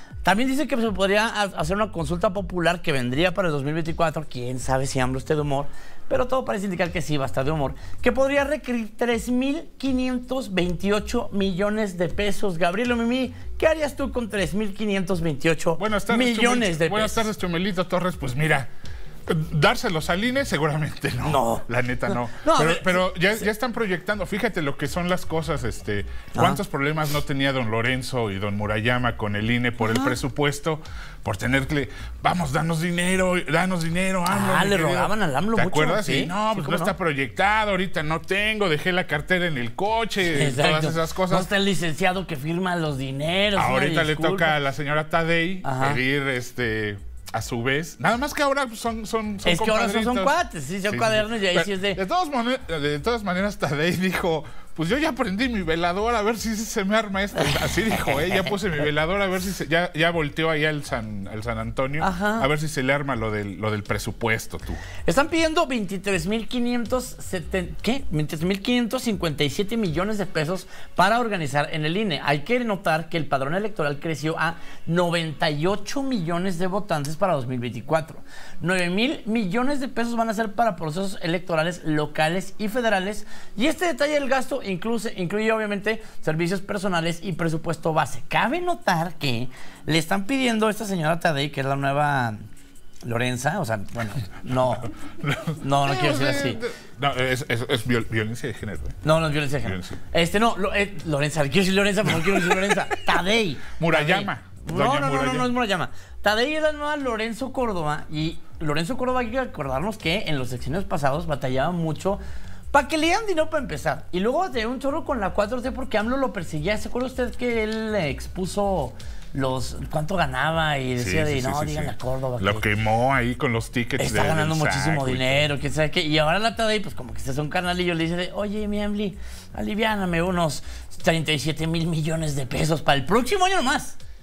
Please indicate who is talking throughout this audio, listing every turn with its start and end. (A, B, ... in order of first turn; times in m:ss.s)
0:00.2-0:17.2 A
0:15.8-0:18.7 B
0:19.3-0:41.5 B
0:21.2-0:23.0 A
0:26.3-0:26.6 A
0:29.8-0:30.1 A
0:34.3-0:36.9 A
0:40.3-0:44.5 A
0:43.5-0:50.3 B
0:45.6-0:46.0 A
0:49.4-0:52.0 A
0:50.8-1:04.8 B
0:58.1-0:58.5 A
1:02.0-1:02.5 A
1:05.0-1:32.4 A
1:33.0-1:34.9 A
1:35.2-1:39.0 B
1:35.6-1:36.6 A
1:39.0-1:52.2 A
1:39.6-1:40.0 B
1:42.1-1:43.0 B
1:43.8-1:45.5 B
1:52.7-2:02.7 A
2:01.0-2:05.5 B
2:04.0-2:14.0 A